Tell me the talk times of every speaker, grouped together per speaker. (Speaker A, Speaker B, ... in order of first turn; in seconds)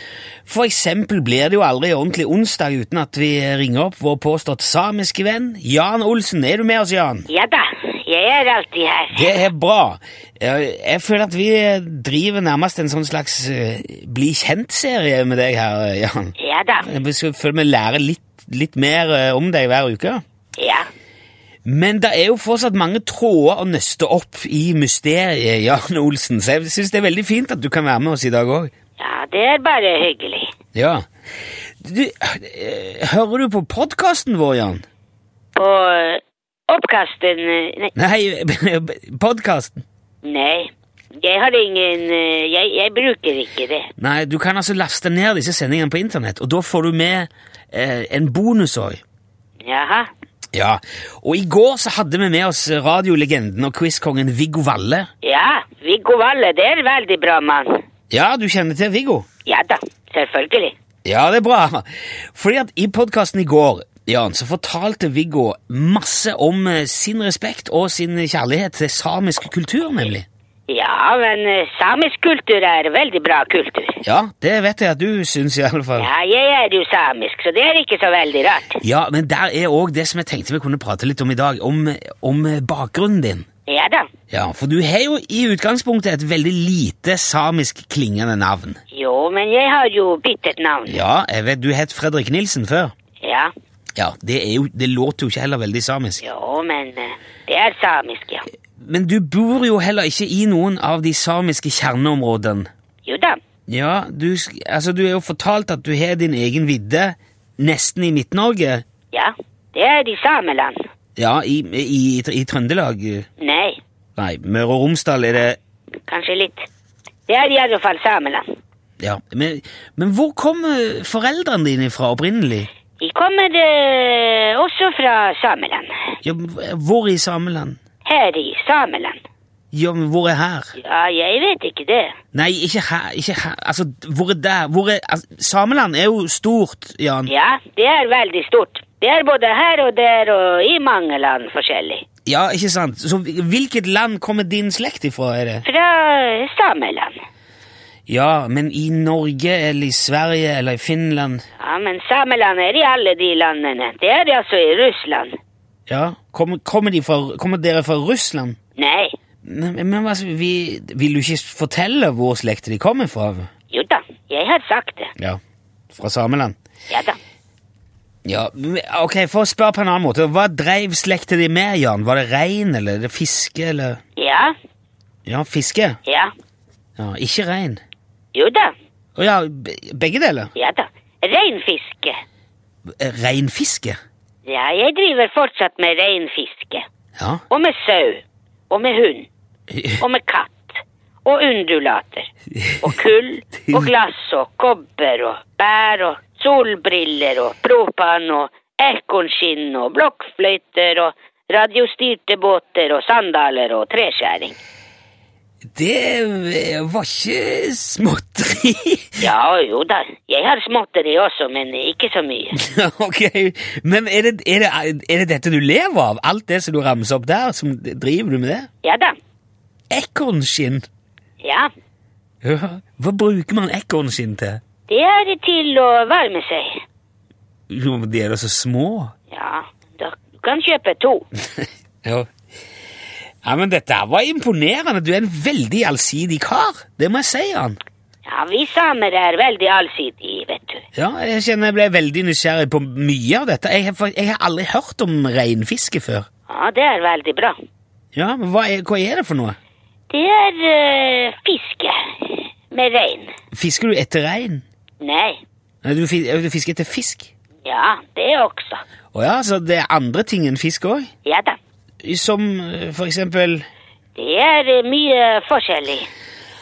Speaker A: 0.5-7.3, 9.1-20.2, 21.6-28.7, 30.7-31.0, 31.8-34.8, 38.0-39.8, 44.0-49.0, 50.5-55.1, 58.1-59.2, 61.0-70.2, 74.0-76.1, 78.8-83.5, 84.3-88.8, 90.9-92.9, 94.0-96.2, 98.8-102.7, 103.7-108.8, 111.2-113.3, 114.2-115.6, 119.0-122.7, 126.2-127.8, 129.7-130.7, 132.3-137.3, 142.3-145.6, 148.1-151.4, 155.9-158.6, 159.4-163.5, 165.9-166.6, 168.2-174.0, 175.2-176.0, 177.0-177.8, 179.2-180.5, 182.9-184.0, 187.2-187.4, 189.7-190.0, 205.7-209.2, 212.5-218.7, 219.9-220.8, 222.4-224.6, 227.7-229.1, 232.0-232.3, 233.4-237.8, 240.9-246.3, 248.1-249.6, 253.5-254.6, 255.8-257.3, 259.1-261.1, 262.0-263.6
Speaker B: 7.3-9.4, 16.4-16.9, 20.6-20.9, 29.0-30.5, 35.5-37.9, 40.2-43.9, 49.6-50.1, 55.2-57.8, 59.5-60.7, 70.7-74.0, 76.0-78.8, 83.7-84.1, 88.9-91.0, 93.2-93.5, 96.2-98.4, 103.0-103.4, 109.1-110.8, 113.4-113.8, 116.1-116.7, 117.3-118.5, 123.0-126.1, 128.0-129.2, 130.8-132.1, 137.2-142.0, 145.6-147.1, 151.6-155.3, 158.8-159.1, 163.7-165.1, 166.9-167.2, 174.2-174.5, 176.1-176.3, 178.3-178.7, 180.5-182.2, 184.4-186.8, 187.5-189.3, 190.0-192.3, 192.8-204.6, 209.2-212.6, 218.8-219.1, 221.4-221.7, 224.9-226.8, 229.3-231.2, 238.2-240.8, 246.5-247.6, 250.1-253.3, 255.0-255.4, 257.6-258.8, 261.2-261.6, 264.1-266.1